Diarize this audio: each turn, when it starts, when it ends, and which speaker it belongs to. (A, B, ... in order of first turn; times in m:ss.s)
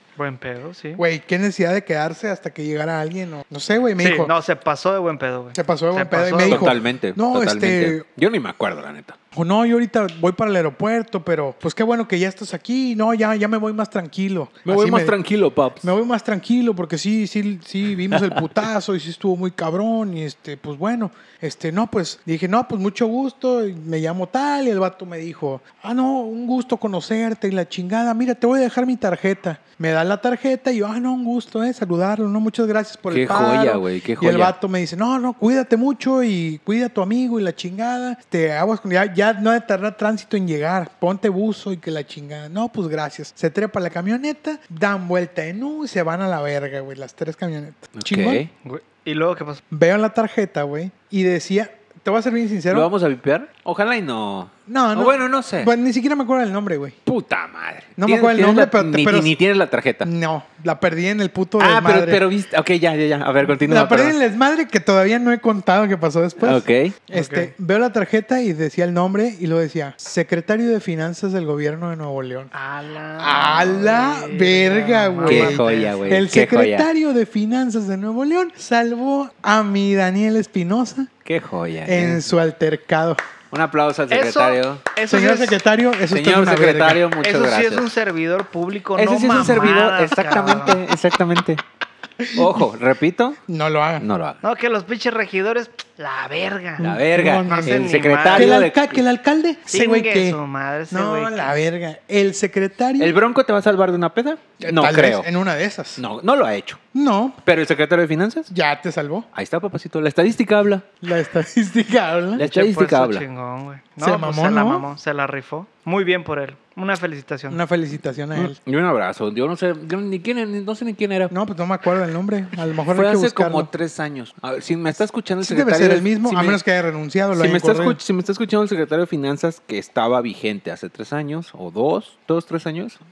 0:00.2-0:01.0 A
0:01.0-0:04.3 B
0:04.0-0:06.7 A
0:05.5-0:08.0 B
0:06.5-0:09.2 C
0:09.3-0:15.2 B
0:14.6-0:15.9 C
0:15.8-0:48.4 B
0:18.1-0:18.4 C
0:33.1-0:34.5 C
0:48.0-0:48.5 C
0:48.6-0:49.6 A
0:49.7-0:52.9 B
0:52.7-0:55.7 C
0:54.7-0:57.0 B
0:57.0-1:00.1 C
0:58.0-0:59.3 B
1:00.0-1:02.2 B
1:01.6-1:04.2 C
1:03.5-1:12.5 B
1:06.4-1:07.0 C
1:07.1-1:07.5 A
1:12.5-1:16.0 A
1:13.2-1:21.1 B
1:15.3-1:16.9 C
1:21.2-1:22.2 C
1:21.8-1:23.2 B
1:23.5-1:24.8 C
1:24.1-1:25.6 A
1:25.1-1:27.0 B
1:26.1-1:27.9 C
1:27.2-1:30.8 A
1:29.0-1:31.6 C
1:32.2-1:32.6 B
1:32.3-1:33.4 C
1:33.5-1:34.1 B
1:34.0-1:34.4 C
1:34.4-1:38.6 A
1:36.8-1:39.0 C
1:36.8-1:40.4 B
1:39.7-1:41.5 A
1:40.9-1:43.2 B
1:43.0-1:45.3 C
1:44.6-1:46.0 B
1:46.0-1:46.8 C
1:46.9-1:47.4 B
1:47.4-1:48.5 C
1:48.5-1:49.3 B
1:49.3-1:50.9 C
1:51.0-1:52.4 B
1:52.3-1:53.2 C
1:52.4-1:57.6 A
1:54.0-1:54.8 B
1:57.5-1:58.6 B
1:58.3-2:01.3 C
2:01.3-2:03.7 B
2:02.9-2:06.6 C
2:05.4-2:08.0 B
2:07.3-2:13.0 C